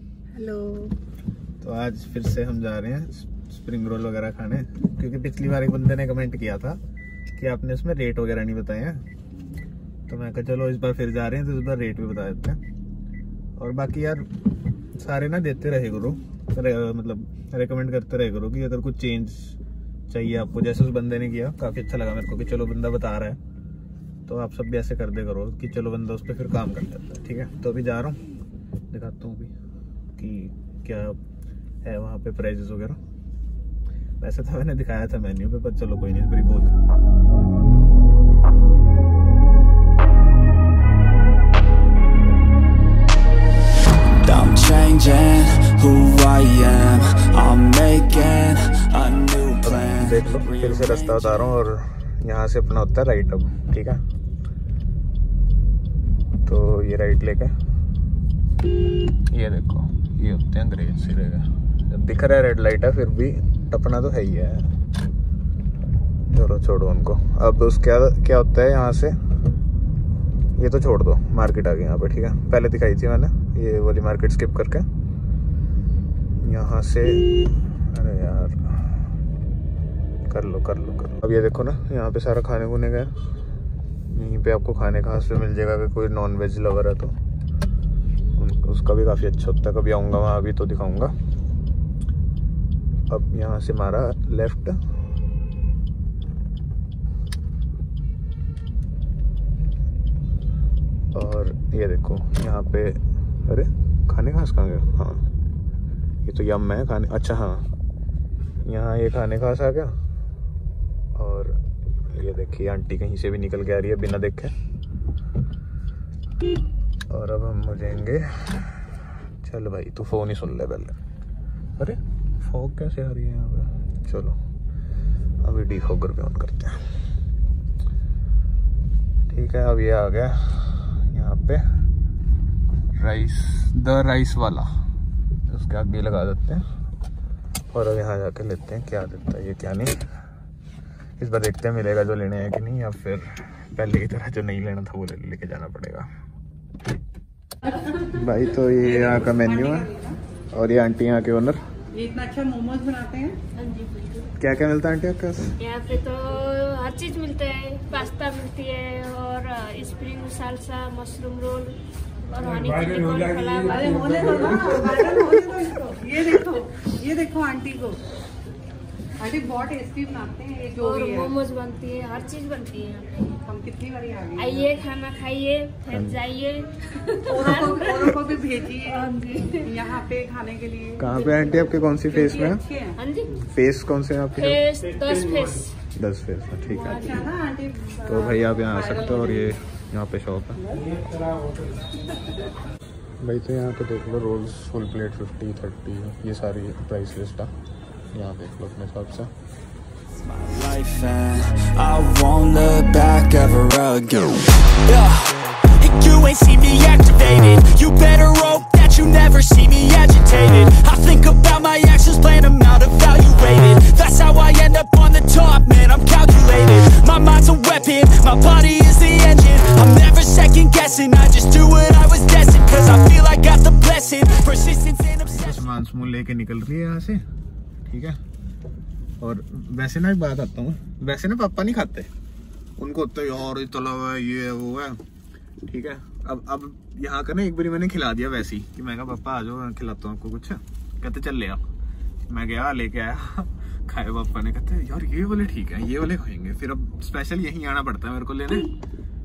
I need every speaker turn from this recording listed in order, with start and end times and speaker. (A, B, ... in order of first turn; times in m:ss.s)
0:00.4-0:00.9 A
0:01.6-0:06.8 B
0:07.4-0:09.0 B
0:10.1-0:12.6 B
0:13.6-0:14.3 B
0:15.0-0:23.4 B
0:24.3-0:28.2 B
0:28.9-0:29.5 B
0:30.2-0:31.2 B
0:31.8-0:33.0 B
0:34.2-0:36.7 B
0:44.2-0:51.6 C
0:49.6-0:54.0 B
0:56.4-0:57.5 B
0:59.3-1:04.7 B
1:06.3-1:09.2 B
1:10.6-1:14.9 B
1:16.4-1:19.0 B
1:20.3-1:23.1 B
1:24.1-1:27.2 B
1:28.4-1:31.1 B
1:33.1-1:34.8 B
1:41.1-1:45.2 B
1:46.2-1:47.7 B
1:48.6-1:50.0 B
1:51.2-1:51.6 B
1:52.1-1:54.5 B
1:57.1-2:01.0 B
2:01.8-2:04.4 B
2:05.4-2:06.8 B
2:09.3-2:11.6 B
2:13.0-2:14.7 B
2:15.5-2:16.6 B
2:17.7-2:19.9 B
2:21.2-2:26.1 B
2:27.9-2:29.9 B
2:28.8-2:30.2 A
2:30.5-2:31.6 B
2:31.9-2:33.4 A
2:33.6-2:34.3 D
2:34.4-2:35.6 B
2:35.6-2:41.8 D
2:42.3-2:44.4 D
2:43.6-2:48.0 A
2:49.2-2:51.3 A
2:50.8-2:53.1 D
2:53.4-2:54.8 A
2:54.4-2:58.2 D
2:55.9-2:56.2 B
2:57.3-2:59.1 A
2:58.9-2:59.7 D
2:59.6-3:03.0 A
3:01.0-3:02.6 B
3:03.0-3:03.4 D
3:03.4-3:04.6 B
3:04.3-3:05.8 D
3:06.0-3:07.3 B
3:06.7-3:07.2 D
3:06.9-3:09.6 A
3:08.0-3:10.6 B
3:13.2-3:17.5 B
3:18.1-3:19.3 B
3:20.2-3:45.6 C
3:45.3-3:47.2 B
3:47.9-3:48.2 B
3:49.2-3:52.1 B
3:52.8-3:55.0 B
3:55.6-4:01.6 B
4:02.3-4:08.7 B